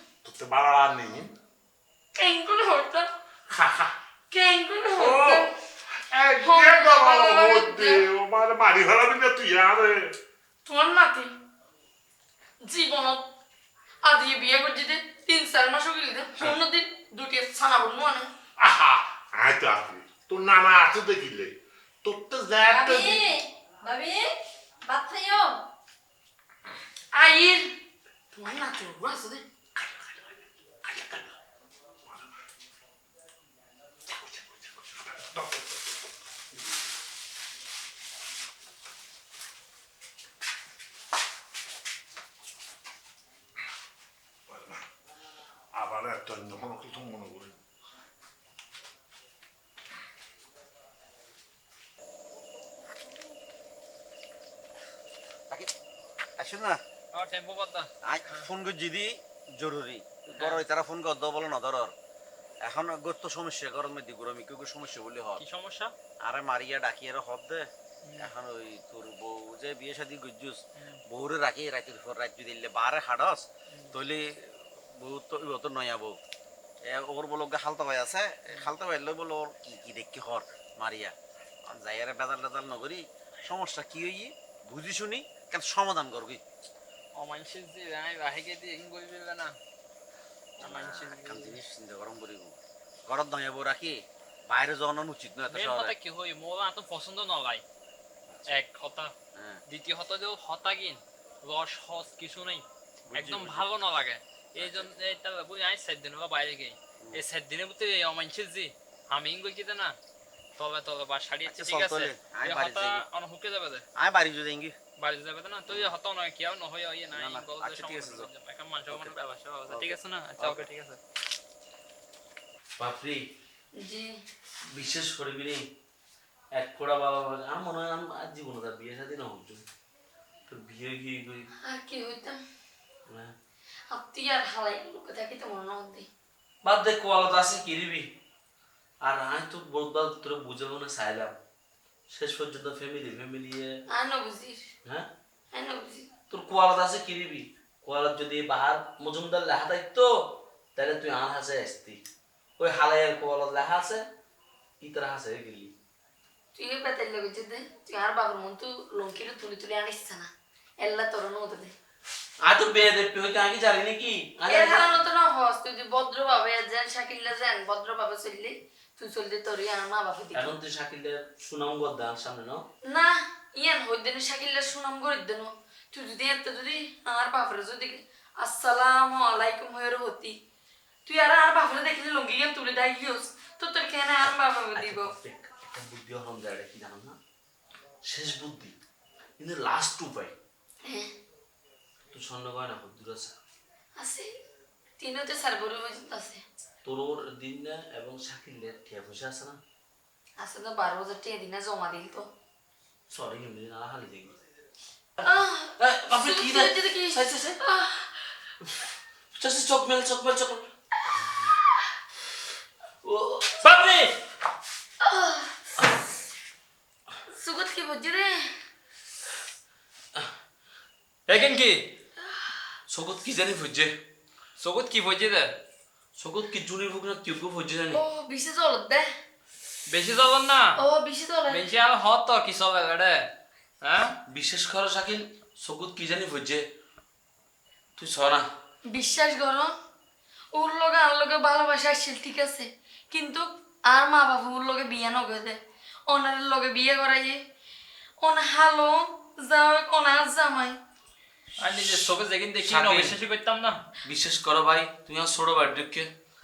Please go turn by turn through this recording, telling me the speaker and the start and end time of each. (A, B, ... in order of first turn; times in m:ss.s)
0:00.2-0:01.3 A
0:02.2-0:03.1 B
0:03.5-0:03.9 A
0:04.3-0:05.5 B
0:04.9-0:10.2 A
0:06.4-0:08.0 B
0:10.6-0:11.3 B
0:12.6-0:13.2 B
0:14.0-0:18.3 B
0:18.6-0:23.2 A
0:22.7-0:25.6 C
0:27.1-0:27.7 B
0:28.3-0:29.4 B
0:29.8-0:31.4 A
0:34.1-0:35.9 A
0:44.5-0:44.8 A
0:45.7-0:47.6 A
0:56.4-0:56.8 D
0:57.1-0:58.4 E
0:58.0-1:01.9 D
1:02.6-1:05.4 D
1:05.4-1:05.9 E
1:06.2-1:07.7 D
1:08.1-1:08.3 E
1:08.2-1:16.2 D
1:16.9-1:21.1 D
1:21.7-1:26.4 D
1:27.2-1:29.5 E
1:30.6-1:31.6 E
1:30.6-1:36.0 D
1:35.5-1:37.6 E
1:38.3-1:38.6 D
1:38.5-1:39.1 E
1:39.4-1:39.6 D
1:39.7-1:50.0 E
1:43.1-1:43.7 D
1:44.6-1:44.9 D
1:50.6-1:53.8 E
1:51.5-1:53.1 D
1:54.0-1:54.8 D
1:55.0-2:01.0 E
1:57.2-1:58.3 D
1:58.9-1:59.2 D
1:59.7-2:00.7 D
2:02.8-2:03.3 F
2:03.8-2:04.1 B
2:04.7-2:05.6 F
2:06.6-2:09.6 F
2:10.5-2:11.5 F
2:11.7-2:12.4 B
2:13.1-2:13.3 F
2:13.9-2:16.1 B
2:16.6-2:18.1 F
2:19.0-2:21.4 F
2:22.1-2:23.7 F
2:23.9-2:24.6 B
2:25.5-2:26.1 B
2:26.3-2:30.1 F
2:30.8-2:32.0 F
2:32.6-2:34.0 F
2:34.8-2:35.7 F
2:36.6-2:40.3 B
2:40.8-2:41.7 B
2:42.4-2:45.0 F
2:44.5-2:50.5 B
2:50.3-2:52.7 F
2:52.9-3:00.3 B
3:01.0-3:05.1 B
3:04.8-3:07.2 F
3:08.1-3:08.8 F
3:09.4-3:10.4 F
3:12.1-3:13.4 F
3:14.0-3:14.3 B
3:15.0-3:16.4 B
3:16.8-3:19.6 F
3:20.4-3:22.2 B
3:23.1-3:24.4 F
3:25.2-3:28.2 B
3:25.8-3:27.6 F
3:29.4-3:30.6 F
3:33.0-3:33.6 F
3:33.6-3:34.1 E
3:35.0-3:35.7 B
3:37.3-3:38.5 B
3:41.3-3:41.8 E
3:42.9-3:43.9 F
3:44.6-3:45.5 E
3:46.2-3:48.0 F
3:47.9-3:49.1 B
3:49.9-3:50.7 E
3:50.8-3:51.6 B
3:51.5-3:53.2 E
3:53.8-3:54.1 E
3:54.3-3:56.6 F
3:58.0-3:58.5 F
3:58.9-3:59.7 B
4:00.5-4:07.4 B
4:08.2-4:10.8 B
4:11.6-4:13.8 E
4:11.6-4:11.9 F
4:12.6-4:13.2 F
4:14.0-4:16.1 F